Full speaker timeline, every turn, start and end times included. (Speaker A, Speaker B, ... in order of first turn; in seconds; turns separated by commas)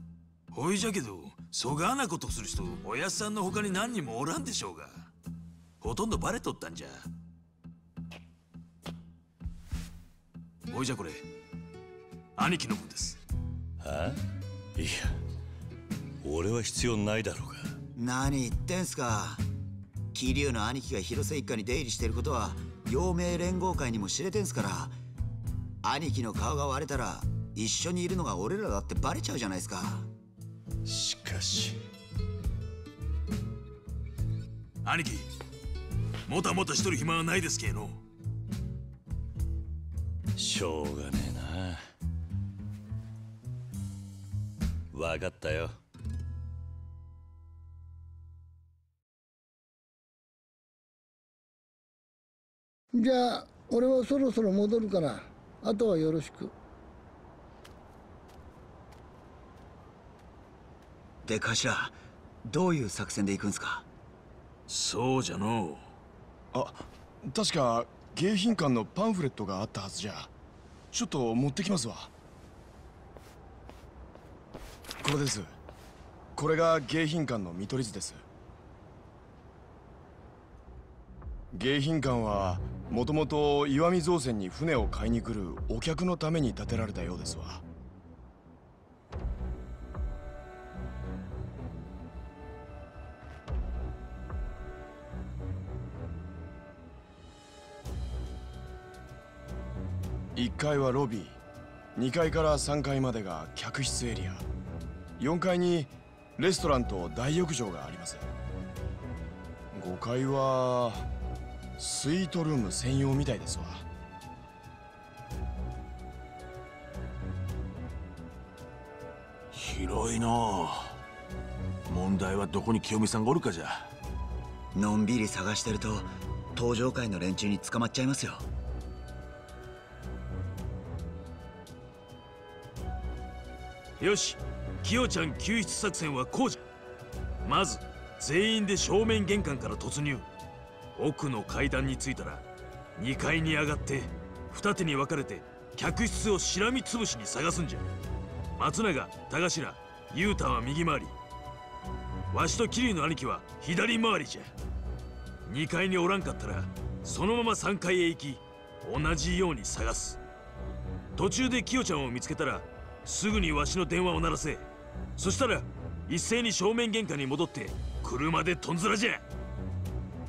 Speaker A: 0.5-5.1, Speaker A: 5.8-7.0, Speaker A: 10.7-11.2, Speaker A: 12.4-13.2, Speaker B: 13.8-14.2, Speaker B: 14.8-15.2, Speaker B: 16.2-17.8, Speaker C: 17.9-19.4, Speaker C: 20.1-24.9, Speaker C: 25.8-30.1, Speaker B: 30.8-31.8, Speaker A: 34.8-35.3, Speaker A: 36.3-38.0, Speaker B: 40.4-41.8, Speaker B: 44.9-45.8, Speaker D: 52.9-56.5, Speaker C: 61.2-63.9, Speaker A: 64.7-65.8, Speaker E: 66.5-70.3, Speaker E: 70.9-72.1, Speaker E: 75.0-75.5, Speaker E: 76.3-78.2, Speaker E: 81.5-87.6, Speaker E: 100.3-101.4, Speaker E: 102.0-104.5, Speaker E: 105.2-108.3, Speaker E: 109.7-111.1, Speaker E: 111.8-113.8, Speaker F: 119.5-121.0, Speaker F: 121.8-123.9, Speaker C: 124.7-128.4, Speaker A: 134.0-136.6, Speaker A: 137.4-140.3, Speaker A: 140.9-142.4, Speaker A: 143.0-147.8, Speaker A: 148.6-151.1, Speaker A: 152.3-154.5, Speaker A: 155.5-160.2, Speaker A: 161.2-164.7, Speaker A: 165.2-169.2